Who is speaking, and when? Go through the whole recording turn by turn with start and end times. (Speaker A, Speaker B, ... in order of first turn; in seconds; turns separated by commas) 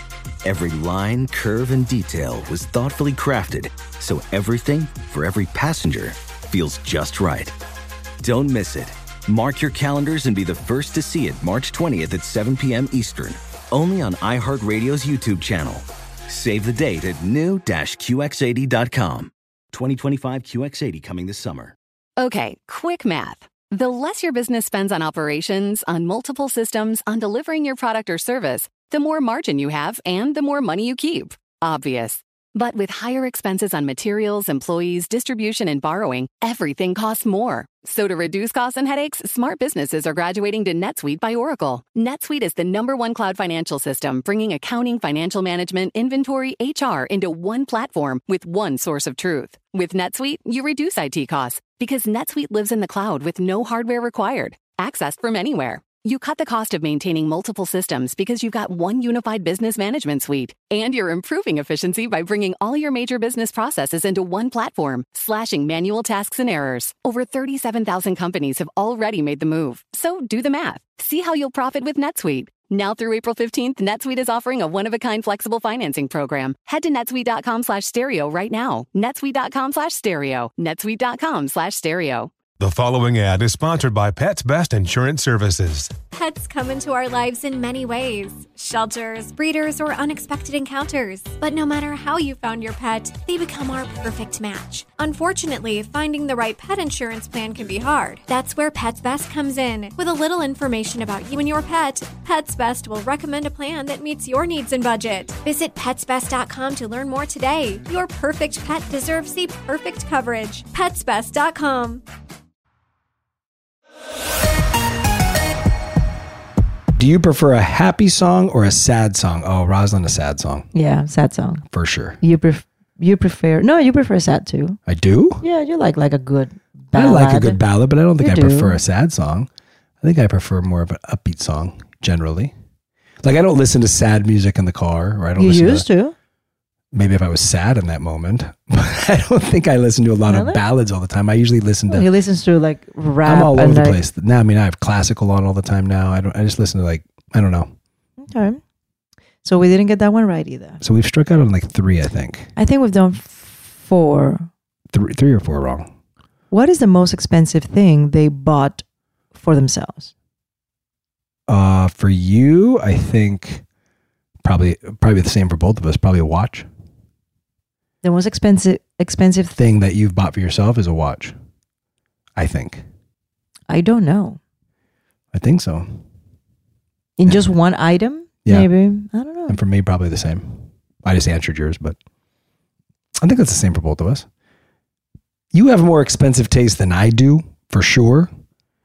Speaker A: 0.4-7.5, Speaker A: 8.2-21.7, Speaker B: 22.2-82.3, Speaker C: 82.6-85.9, Speaker D: 86.1-112.0, Speaker E: 117.0-120.7, Speaker F: 120.7-121.6, Speaker E: 121.7-122.2, Speaker F: 122.2-124.8, Speaker E: 124.9-125.4, Speaker F: 125.4-127.6, Speaker E: 126.9-129.5, Speaker F: 128.2-128.8, Speaker E: 130.0-132.5, Speaker E: 133.2-135.8, Speaker F: 135.4-136.1, Speaker E: 136.9-142.1, Speaker F: 140.3-140.6, Speaker F: 141.9-144.0, Speaker E: 143.2-147.7, Speaker F: 148.2-148.6, Speaker F: 149.4-150.8, Speaker E: 150.8-152.5, Speaker F: 152.6-154.5, Speaker E: 154.9-155.9, Speaker F: 156.5-158.8, Speaker F: 159.3-160.1, Speaker E: 161.5-163.6, Speaker E: 164.4-166.7, Speaker F: 168.0-169.6, Speaker E: 169.6-171.3, Speaker E: 172.3-172.8, Speaker F: 173.7-174.4, Speaker E: 175.3-176.0, Speaker F: 177.2-179.6, Speaker E: 178.4-178.7, Speaker E: 179.5-182.0, Speaker E: 183.2-184.3, Speaker E: 185.5-188.3